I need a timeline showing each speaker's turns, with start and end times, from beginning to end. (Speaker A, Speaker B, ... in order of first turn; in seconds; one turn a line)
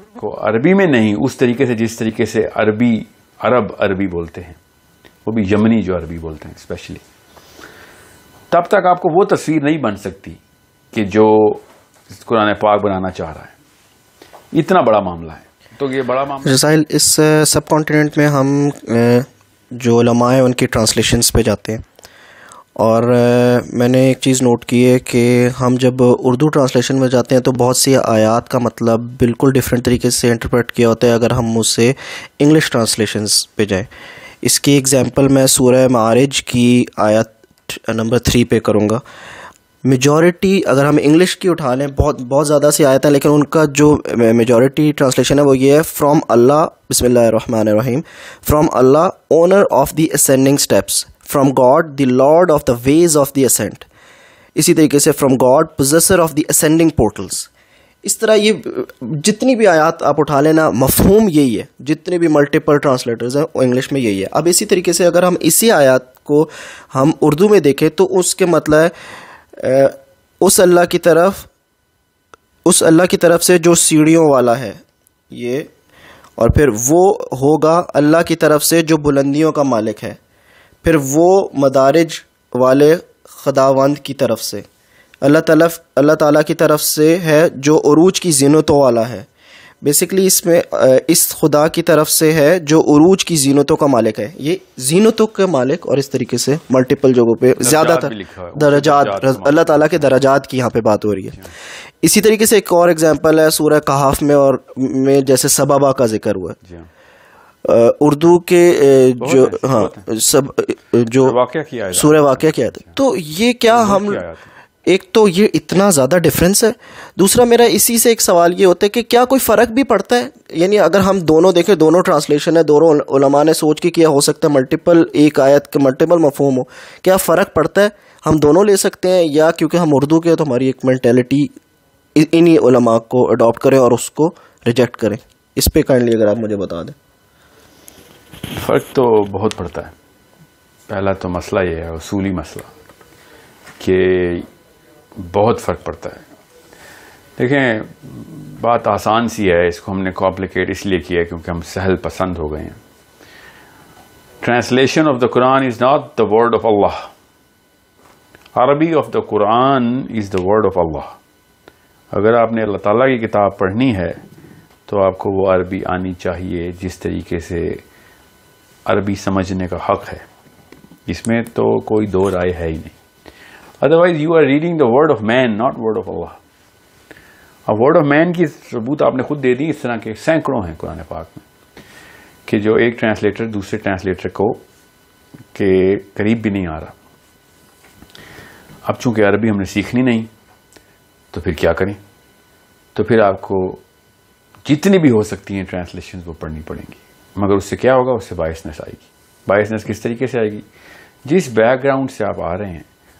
Speaker A: 0.2-4.6
Speaker A: 5.2-7.0
Speaker A: 8.5-10.4
Speaker A: 10.9-13.5
Speaker A: 14.5-16.6
Speaker B: 16.4-21.8
Speaker B: 22.8-33.9
Speaker B: 34.4-39.0
Speaker B: 39.8-53.9
Speaker B: 54.5-57.5
Speaker B: 58.0-68.9
Speaker B: 69.6-71.5
Speaker B: 72.6-75.7
Speaker B: 76.4-80.2
Speaker B: 80.8-84.6
Speaker B: 85.2-89.3
Speaker B: 89.8-101.4
Speaker A: 97.6-100.2
Speaker B: 102.0-106.6
Speaker B: 107.6-111.4
Speaker A: 109.2-110.1
Speaker A: 111.2-113.0
Speaker B: 111.9-114.2
Speaker A: 113.7-114.5
Speaker B: 114.8-131.5
Speaker B: 132.1-136.9
Speaker A: 138.5-139.9
Speaker A: 140.9-142.7
Speaker A: 143.8-144.4
Speaker A: 145.2-146.2
Speaker A: 147.4-152.8
Speaker A: 154.4-157.1
Speaker A: 158.5-161.2
Speaker A: 162.1-164.2
Speaker A: 164.9-167.8
Speaker A: 168.8-170.2
Speaker A: 171.1-172.9
Speaker A: 173.8-176.4
Speaker A: 177.7-181.4
Speaker A: 182.5-184.6
Speaker A: 185.5-186.9
Speaker A: 188.8-190.3
Speaker A: 191.3-192.0
Speaker A: 192.9-193.8
Speaker A: 194.6-200.6
Speaker A: 201.2-202.9